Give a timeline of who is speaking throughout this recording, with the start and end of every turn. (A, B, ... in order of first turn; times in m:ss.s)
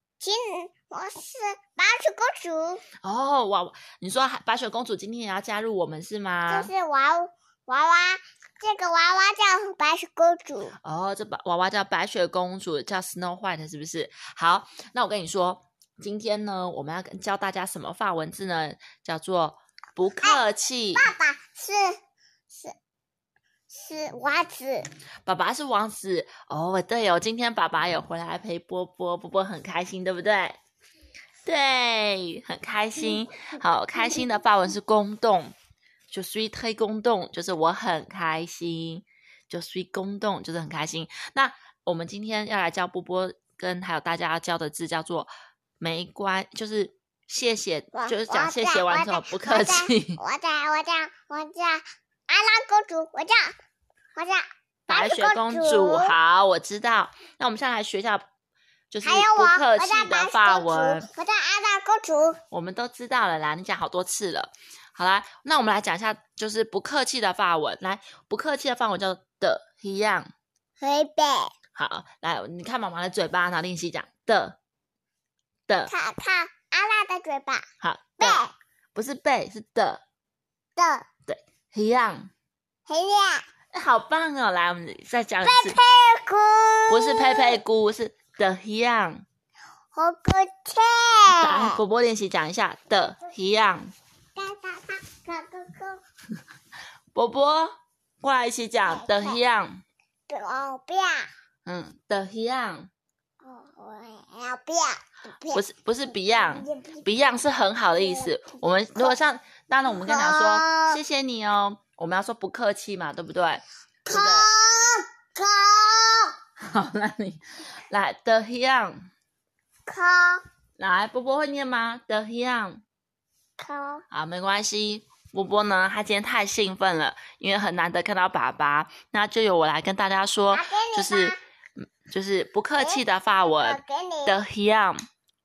0:00.2-0:02.8 A
0:03.0-0:06.7 B
0:06.5-0:10.8 A
0:10.8-0:21.0 B
0:21.0-0:22.0 A
0:22.5-0:22.7 A
0:23.7-0:24.9 A
0:25.2-0:30.6 B
0:31.4-0:35.5 B
0:36.1-0:50.2 B
0:47.9-0:53.5 A
0:54.2-0:56.2 A
0:54.9-0:58.2 B
0:58.9-1:01.1 B
0:59.0-1:02.4 A
1:02.5-1:10.3 B
1:10.8-1:11.5 A
1:11.7-1:14.6 B
1:15.9-1:17.6 A
1:17.8-1:18.4 B
1:18.2-1:18.5 A
1:18.9-1:20.0 B
1:20.8-1:21.0 A
1:21.3-1:22.3 B
1:22.9-1:23.4 A
1:23.7-1:25.8 B
1:25.4-1:27.6 A
1:26.9-1:29.2 B
1:29.9-1:31.8 A
1:31.3-1:33.9 B
1:34.4-1:36.0 A
1:37.1-1:39.8 B
1:38.8-1:39.4 A
1:40.3-1:41.3 A
1:41.6-1:42.9 B
1:43.4-1:47.4 A
1:45.5-1:54.5 B
1:48.0-1:49.2 A
1:49.8-1:51.0 A
1:54.1-1:56.3 A
1:56.6-1:59.0 B
1:59.9-2:00.4 A
2:00.8-2:02.8 B
2:03.6-2:04.0 A
2:04.1-2:15.0 B
2:10.5-2:11.4 A
2:12.8-2:14.4 A